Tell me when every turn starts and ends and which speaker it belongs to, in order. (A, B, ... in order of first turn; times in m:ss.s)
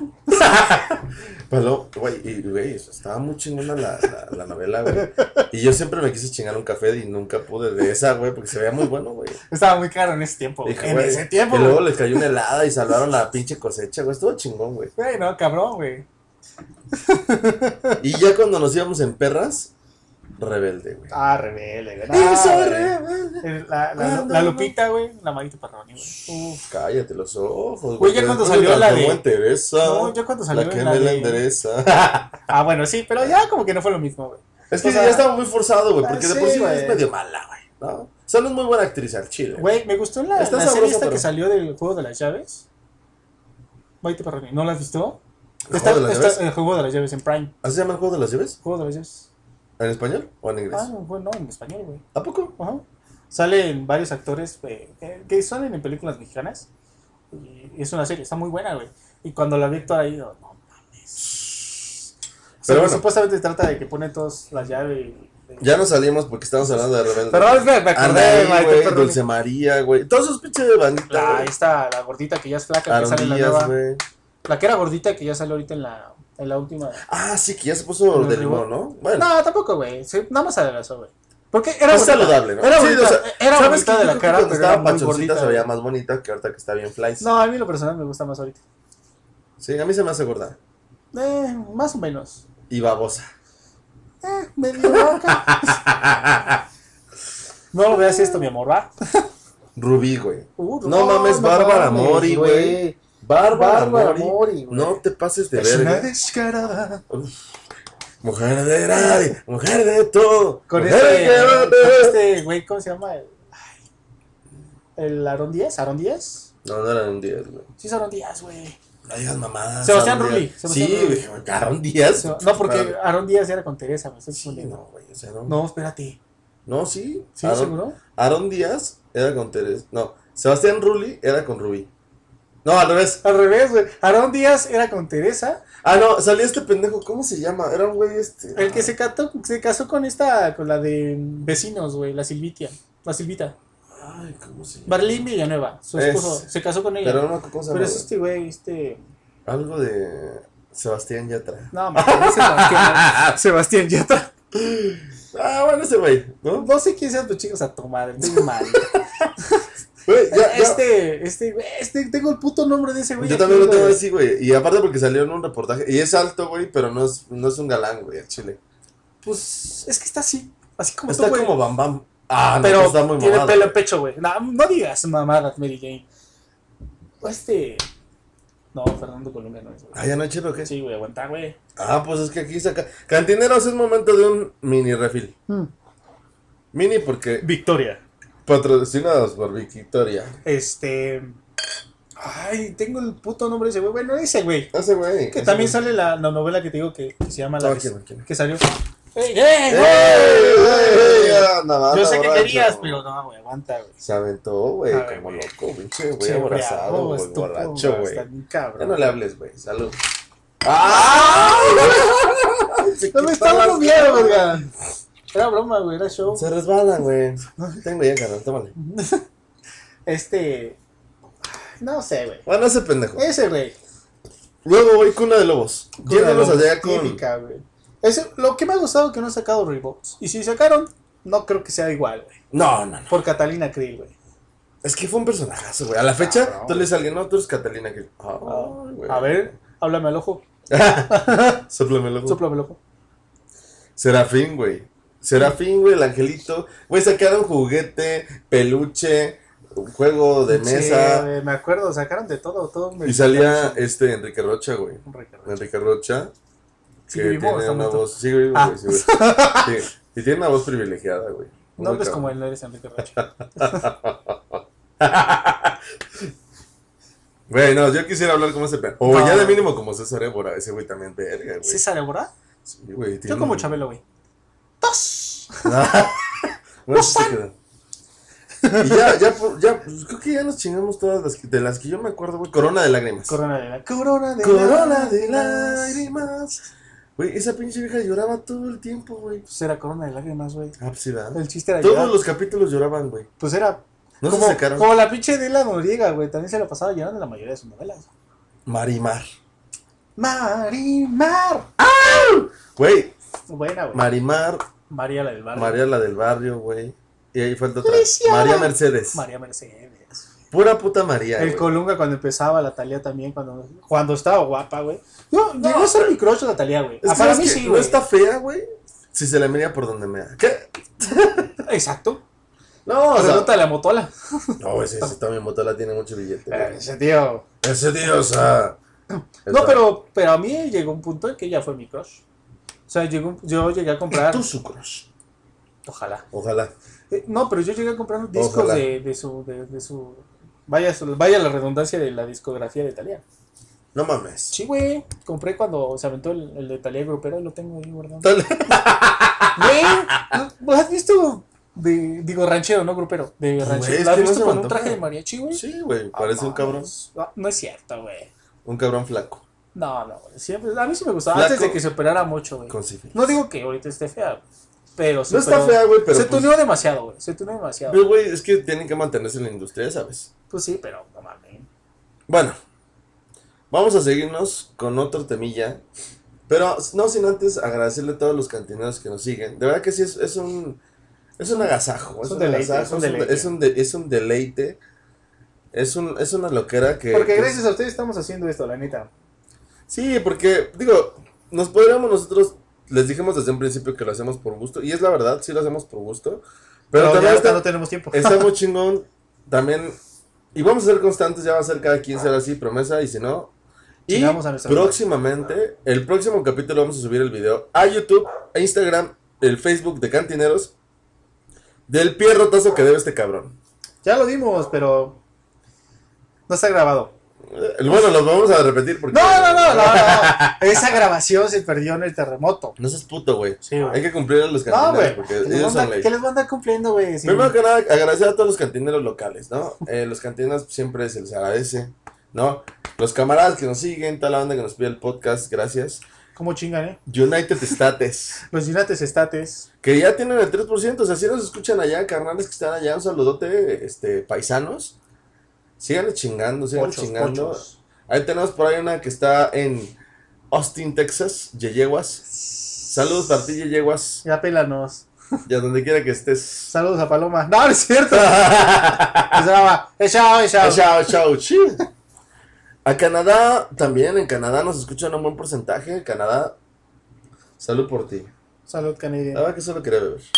0:00.3-0:09.4 A
0:04.9-0:05.4 B
0:09.5-0:12.2 B
0:10.6-0:14.9 A
0:15.0-0:16.0 B
0:16.9-0:18.0 B
0:18.0-0:19.7 A
0:20.4-0:21.1 A
0:21.1-0:26.7 B
0:22.1-0:23.4 A
0:24.0-0:24.7 A
0:26.7-0:32.4 A
0:28.0-0:29.2 B
0:29.8-0:31.4 B
0:32.5-0:35.3 B
0:34.7-0:39.7 A
0:36.0-0:37.0 B
0:39.6-0:42.6 B
0:40.3-0:41.3 A
0:44.0-0:45.2 B
0:45.7-0:46.4 A
0:45.7-0:47.5 B
0:47.6-0:48.6 A
0:48.6-0:49.3 B
0:49.8-0:50.9 A
0:50.7-0:52.0 B
0:52.1-0:52.5 A
0:52.6-0:56.7 B
0:57.3-1:01.3 B
1:01.3-1:01.6 A
1:02.6-1:05.7 B
1:02.6-1:03.0 A
1:05.6-1:11.5 A
1:07.3-1:09.2 B
1:11.1-1:13.7 B
1:12.9-1:14.0 A
1:14.4-1:17.0 B
1:17.1-1:19.3 A
1:18.1-1:25.6 B
1:21.9-1:27.2 A
1:27.2-1:28.6 B
1:29.6-1:30.6 A
1:31.1-1:32.4 B
1:32.7-1:33.3 A
1:34.2-1:35.8 B
1:34.8-1:36.6 A
1:37.7-1:39.2 B
1:37.9-1:38.4 A
1:39.8-1:46.1 A
1:40.6-1:43.0 B
1:43.5-1:45.0 B
1:45.5-1:47.0 B
1:47.1-1:47.4 A
1:48.2-1:52.2 A
1:48.9-1:49.2 B
1:50.7-1:53.8 B
1:55.0-1:56.5 B
1:56.6-1:57.7 A
1:57.8-1:58.8 B
1:59.0-2:02.9 A
1:59.8-2:01.2 B
2:02.2-2:04.8 B
2:04.3-2:05.6 A
2:05.5-2:06.2 B
2:06.6-2:11.9 A
2:07.4-2:08.0 B
2:12.6-2:13.2 A
2:13.2-2:15.6 B
2:15.8-2:18.9 A
2:18.6-2:23.6 B
2:23.9-2:25.2 A
2:24.9-2:29.0 B
2:26.0-2:26.5 A
2:27.0-2:28.1 A
2:29.4-2:33.3 A
2:31.7-2:34.3 B
2:34.5-2:36.7 A
2:36.5-2:39.7 B
2:38.2-2:39.3 A
2:40.0-2:40.8 A
2:40.3-2:44.0 B
2:43.2-2:48.6 A
2:49.2-2:51.5 B
2:51.1-2:53.7 A
2:52.6-2:56.0 B
2:57.2-2:57.8 B
2:58.7-3:00.0 B
2:59.9-3:00.7 A
3:00.6-3:01.6 B
3:01.8-3:05.3 A
3:06.7-3:07.5 A
3:07.4-3:08.0 B
3:08.4-3:10.4 A
3:10.4-3:11.4 B
3:12.2-3:14.7 B
3:14.7-3:15.8 A
3:15.3-3:24.0 B
3:17.6-3:18.2 A
3:19.7-3:23.0 A
3:24.0-3:28.2 A
3:24.9-3:25.5 B
3:26.2-3:29.2 B
3:28.8-3:30.0 A
3:30.6-3:34.6 A
3:30.8-3:32.3 B
3:33.1-3:34.7 B
3:35.3-3:36.4 B
3:36.3-3:38.7 A
3:37.6-3:37.8 B
3:38.8-3:39.2 B
3:40.0-3:40.8 B
3:41.8-3:42.4 B
3:42.4-3:43.2 A
3:43.2-3:43.8 B
3:44.6-3:47.2 A
3:46.0-3:52.4 B
3:52.5-3:53.1 A
3:53.1-3:54.1 B
3:54.8-3:59.4 A
3:56.2-3:56.9 B
3:58.4-4:00.4 B
4:00.7-4:02.4 A
4:01.1-4:01.6 B
4:02.2-4:02.8 B
4:04.0-4:11.3 A
4:10.5-4:13.8 B
4:13.0-4:16.3 A
4:15.0-4:15.6 B
4:17.1-4:19.8 B
4:17.1-4:22.3 A
4:21.8-4:23.9 B
4:23.2-4:26.3 A
4:27.5-4:31.8 A
4:29.0-4:29.7 B
4:31.6-4:32.3 B
4:32.6-4:33.7 A
4:33.3-4:34.0 B
4:34.8-4:35.9 B
4:35.6-4:37.5 A
4:36.9-4:37.3 B
4:38.6-4:39.1 B
4:38.8-4:43.4 A
4:43.3-4:46.0 B
4:44.4-4:46.6 A
4:47.2-4:49.4 A
4:49.5-4:50.8 B
4:50.8-4:53.3 A
4:51.3-4:52.2 B
4:53.4-4:58.1 B
4:54.2-4:54.9 A
4:58.6-4:59.3 A
5:00.2-5:01.7 B
5:01.8-5:03.1 A
5:03.5-5:04.0 B
5:03.9-5:04.6 A
5:04.9-5:05.8 B
5:05.5-5:09.2 A
5:07.8-5:10.3 B
5:10.5-5:11.7 A
5:11.4-5:18.0 B
5:15.6-5:16.2 A
5:17.0-5:21.6 A
5:21.6-5:22.2 B
5:22.8-5:23.6 A
5:23.1-5:25.1 B
5:24.6-5:26.8 A
5:26.5-5:27.4 B
5:27.6-5:28.8 A
5:29.4-5:29.8 A
5:29.4-5:32.2 B
5:32.9-5:34.4 B
5:34.1-5:35.1 A
5:35.8-5:36.2 B
5:36.3-5:36.7 A
5:37.1-5:43.2 B
5:38.3-5:38.9 A
5:43.9-5:44.6 A
5:44.5-5:48.3 B
5:48.2-5:50.4 A
5:49.6-5:58.3 B
5:53.6-5:55.0 A
5:55.5-5:56.9 A
5:58.6-5:59.4 A
5:59.7-6:04.4 B
6:01.3-6:01.8 A
6:02.7-6:03.2 A
6:05.0-6:08.0 B
6:05.3-6:06.5 A
6:07.9-6:10.3 A
6:10.5-6:11.7 B
6:12.3-6:12.6 A
6:13.7-6:15.8 A
6:16.5-6:20.8 A
6:21.4-6:24.8 A
6:22.2-6:23.5 B
6:25.7-6:27.6 A
6:27.1-6:29.1 B
6:29.9-6:40.0 A
6:36.9-6:38.5 B
6:40.5-6:43.5 A
6:44.1-6:50.7 A
6:44.1-6:45.0 B
6:51.9-6:53.6 A
6:54.0-6:55.2 B
6:56.5-6:57.1 B
6:57.5-7:00.9 A
6:59.1-7:02.8 B
7:02.8-7:06.1 A
7:03.6-7:04.0 B
7:04.7-7:07.5 B
7:07.2-7:16.0 A
7:16.3-7:17.0 B
7:17.1-7:18.4 A
7:18.5-7:19.7 B
7:19.8-7:24.9 A
7:25.8-7:29.9 A
7:26.7-7:27.7 B
7:30.5-7:32.2 A
7:32.8-7:34.2 A
7:34.2-7:35.1 B
7:35.4-7:36.7 A
7:36.7-7:38.5 B
7:38.1-7:39.4 A
7:39.3-7:41.0 B
7:40.6-7:41.8 A
7:42.8-7:46.6 A
7:47.6-7:48.3 A
7:48.7-7:49.5 B
7:49.3-7:50.3 A